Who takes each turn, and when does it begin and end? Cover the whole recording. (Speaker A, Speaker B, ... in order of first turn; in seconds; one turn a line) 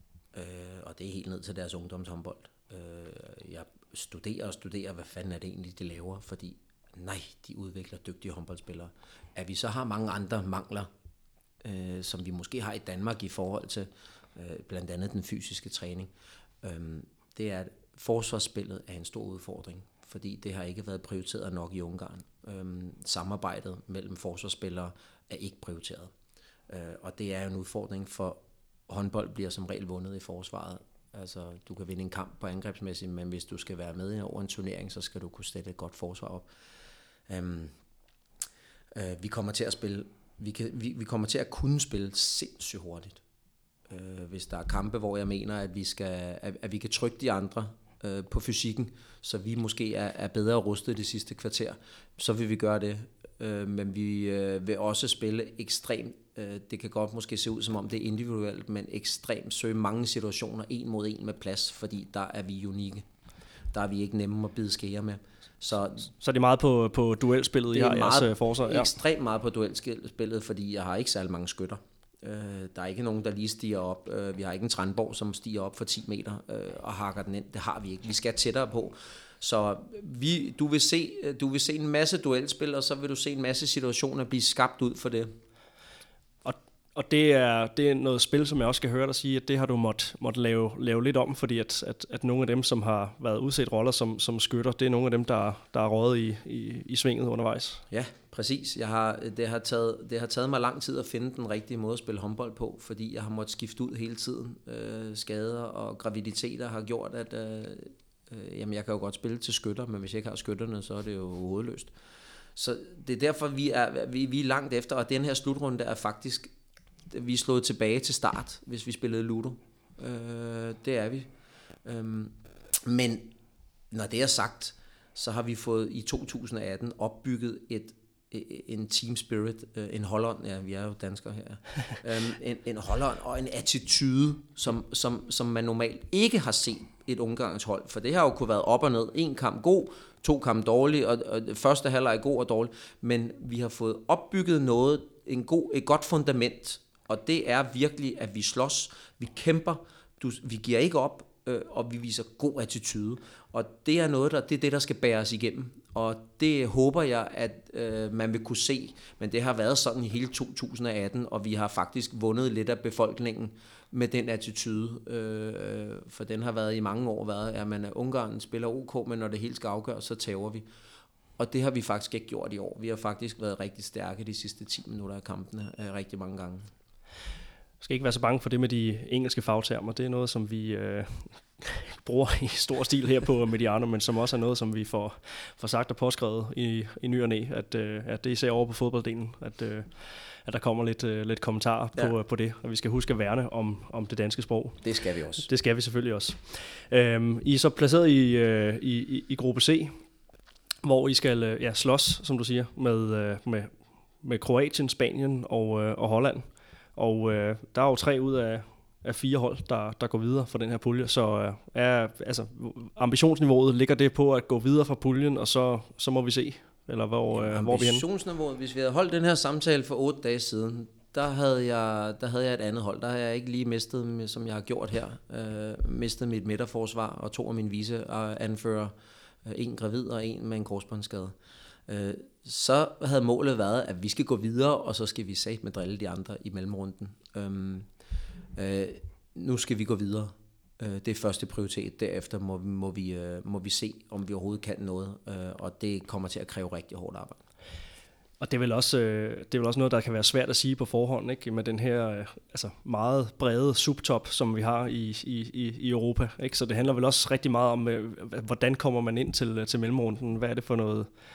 Speaker A: 0.3-10.9
Speaker A: 11.6-16.1
Speaker A: 16.6-26.1
Speaker A: 26.7-36.5
Speaker A: 37.3-37.8
Speaker A: 38.9-43.2
Speaker A: 43.9-63.1
Speaker A: 63.7-66.1
Speaker B: 66.1-68.9
Speaker A: 67.7-85.3
Speaker B: 86.4-97.8
Speaker A: 97.9-111.9
Speaker A: 112.5-116.5
Speaker A: 117.1-121.3
Speaker A: 121.8-123.3
Speaker A: 123.9-170.6
Speaker A: 171.4-176.7
Speaker B: 177.8-194.8
Speaker A: 194.8-195.5
Speaker B: 195.4-200.0
Speaker B: 200.8-218.0
Speaker A: 217.3-228.9
Speaker A: 229.4-231.3
Speaker A: 231.9-237.9
Speaker A: 238.6-247.4
Speaker B: 248.4-261.1